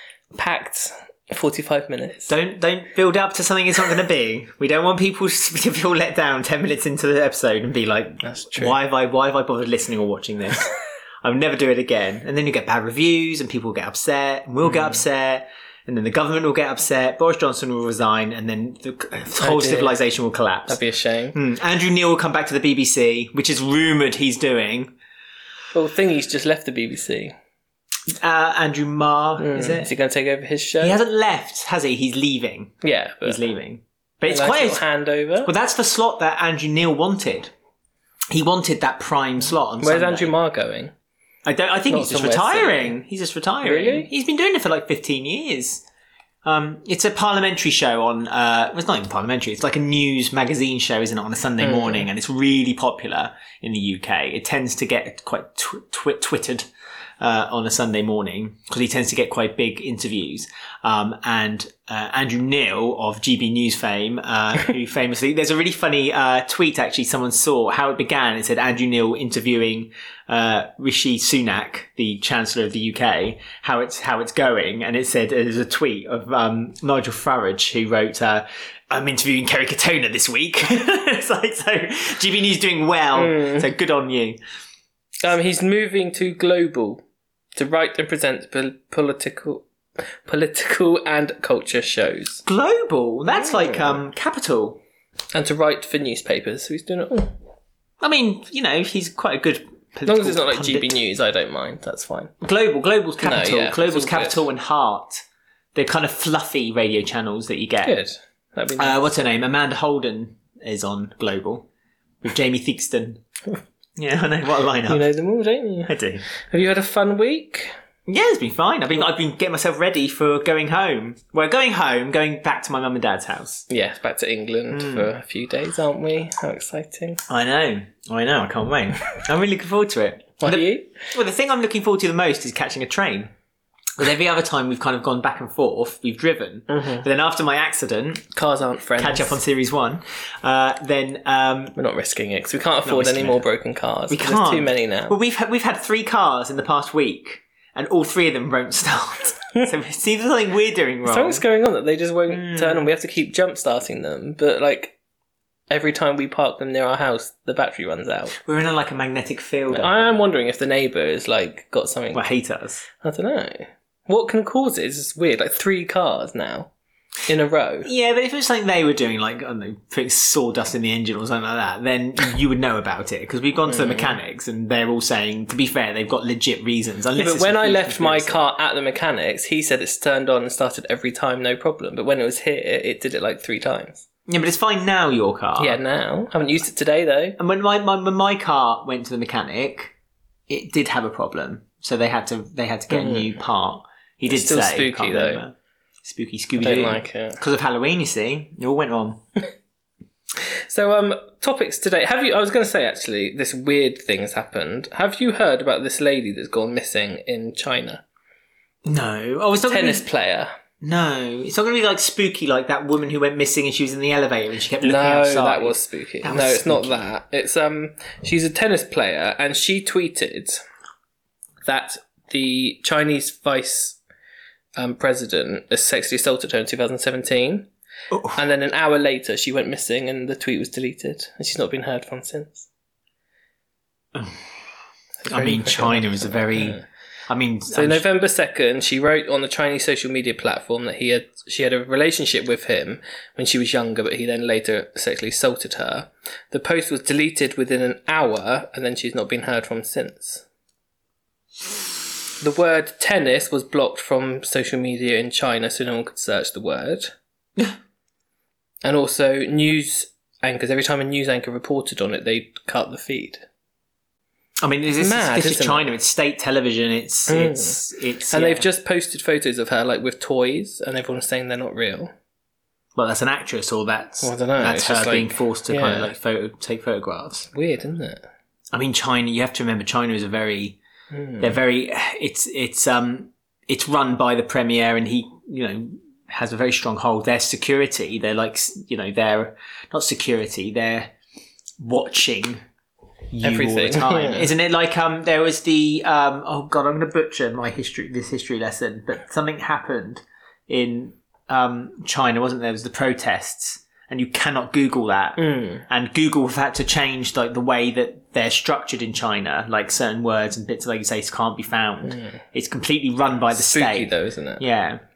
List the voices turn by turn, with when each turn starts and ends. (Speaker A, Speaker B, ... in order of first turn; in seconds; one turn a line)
Speaker A: 0.3-2.3
Speaker B: 2.3-10.7
Speaker A: 8.2-8.7
Speaker B: 11.2-20.8
Speaker A: 14.7-15.0
Speaker A: 19.4-20.0
Speaker A: 20.7-21.4
Speaker B: 21.3-24.9
Speaker A: 25.7-27.3
Speaker B: 28.1-29.9
Speaker A: 29.4-31.0
Speaker B: 30.8-34.8
Speaker A: 32.8-33.4
Speaker A: 34.2-35.5
Speaker B: 35.4-37.5
Speaker B: 38.3-40.3
Speaker A: 39.8-40.9
Speaker B: 41.4-45.8
Speaker A: 41.9-43.0
Speaker A: 43.6-44.1
Speaker B: 46.4-56.7
Speaker A: 51.6-52.1
Speaker B: 57.2-84.4
Speaker A: 83.1-83.7
Speaker A: 85.2-87.0
Speaker A: 87.5-89.7
Speaker A: 90.2-92.4
Speaker B: 92.4-94.8
Speaker A: 93.3-94.0
Speaker A: 95.3-97.3
Speaker B: 98.0-100.9
Speaker A: 100.0-102.3
Speaker B: 102.4-105.2
Speaker A: 103.2-104.4
Speaker B: 105.7-108.0
Speaker A: 107.8-109.0
Speaker B: 108.8-111.7
Speaker B: 112.2-113.2
Speaker B: 114.0-115.0
Speaker A: 114.9-117.7
Speaker B: 115.9-116.2
Speaker B: 118.1-123.7
Speaker A: 123.7-127.2
Speaker B: 124.7-125.1
Speaker B: 127.3-133.3
Speaker A: 130.4-130.9
Speaker B: 134.0-138.2
Speaker A: 136.7-137.1
Speaker A: 138.3-139.4
Speaker B: 139.0-141.8
Speaker A: 141.7-145.1
Speaker B: 142.8-143.4
Speaker B: 144.1-151.4
Speaker A: 151.1-154.9
Speaker B: 152.3-152.8
Speaker A: 155.7-158.3
Speaker B: 158.3-160.1
Speaker A: 159.7-162.2
Speaker B: 162.1-162.8
Speaker A: 162.9-166.7
Speaker A: 167.3-167.9
Speaker B: 167.8-178.4
Speaker A: 173.6-174.2
Speaker A: 177.1-184.0
Speaker B: 184.3-185.8
Speaker A: 185.6-187.4
Speaker B: 187.4-189.9
Speaker B: 190.5-199.2
Speaker A: 192.9-193.3
Speaker A: 194.3-195.4
Speaker A: 196.6-197.4
Speaker A: 200.7-208.0
Speaker B: 208.8-210.0
Speaker A: 209.7-210.5
Speaker B: 210.8-217.0
Speaker A: 214.8-220.6
Speaker A: 221.6-224.0
Speaker A: 224.8-227.7
Speaker B: 228.1-228.4
Speaker A: 228.3-232.7
Speaker A: 235.2-236.8
Speaker B: 235.3-238.0
Speaker A: 237.7-250.4
Speaker A: 252.4-257.1
Speaker A: 258.8-263.4
Speaker B: 264.6-268.7
Speaker A: 265.0-265.9
Speaker A: 267.3-267.8
Speaker A: 268.3-272.1
Speaker B: 272.9-277.5
Speaker A: 274.2-276.1
Speaker A: 277.5-278.3
Speaker B: 278.7-280.8
Speaker A: 281.1-281.5
Speaker B: 281.4-291.1
Speaker B: 291.8-292.6
Speaker B: 293.3-315.0
Speaker A: 293.4-294.5
Speaker A: 305.4-305.8
Speaker A: 312.0-312.4
Speaker A: 313.5-314.6